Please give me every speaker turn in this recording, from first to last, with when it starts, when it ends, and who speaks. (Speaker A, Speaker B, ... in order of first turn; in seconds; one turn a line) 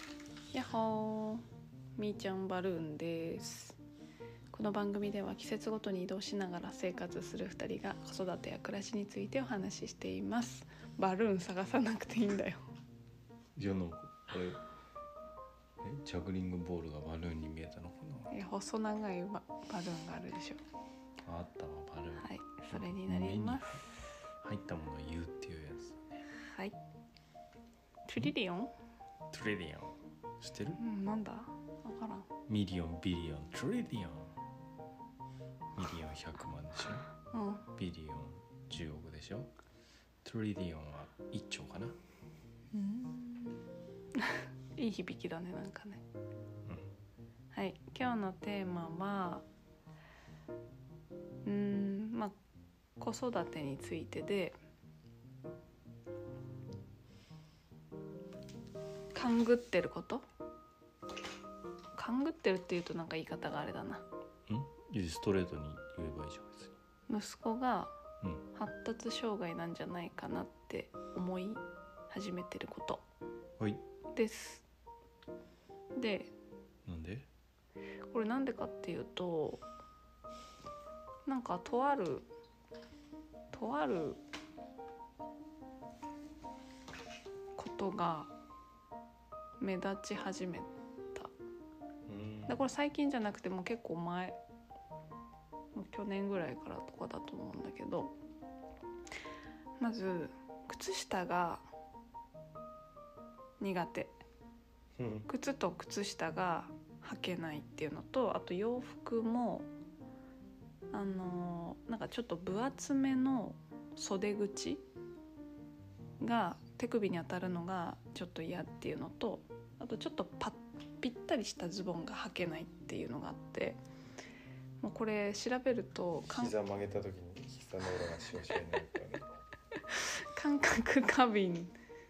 Speaker A: 0.5-1.4
Speaker A: 2.0-3.8
Speaker A: 4.5-12.7
Speaker B: 13.6-14.6
Speaker B: 15.8-18.3
Speaker A: 18.3-20.6
Speaker B: 21.2-23.8
Speaker A: 22.2-23.8
Speaker B: 24.4-26.2
Speaker A: 26.4-26.8
Speaker A: 28.1-28.7
Speaker B: 29.3-30.8
Speaker A: 30.8-32.3
Speaker B: 32.5-34.3
Speaker B: 35.8-37.1
Speaker A: 37.3-37.7
Speaker B: 37.8-39.5
Speaker B: 40.2-42.0
Speaker A: 42.7-43.6
Speaker A: 44.2-46.0
Speaker A: 47.5-49.5
Speaker A: 51.5-52.3
Speaker A: 53.0-54.6
Speaker A: 59.1-60.2
Speaker A: 62.0-64.0
Speaker B: 64.5-66.8
Speaker A: 67.1-68.0
Speaker A: 68.5-73.0
Speaker A: 74.1-74.6
Speaker A: 76.0-76.3
Speaker B: 76.9-77.3
Speaker A: 78.1-79.6
Speaker A: 81.3-82.3
Speaker A: 83.5-84.2
Speaker A: 87.6-88.3
Speaker A: 89.6-91.3
Speaker B: 92.1-92.7
Speaker A: 92.5-94.4
Speaker A: 95.7-98.1
Speaker A: 99.8-101.6
Speaker A: 103.6-104.2
Speaker B: 105.0-105.3
Speaker A: 105.3-109.7
Speaker A: 110.9-114.8
Speaker A: 116.2-123.8
Speaker A: 124.8-126.5
Speaker B: 126.3-129.4
Speaker A: 129.9-131.7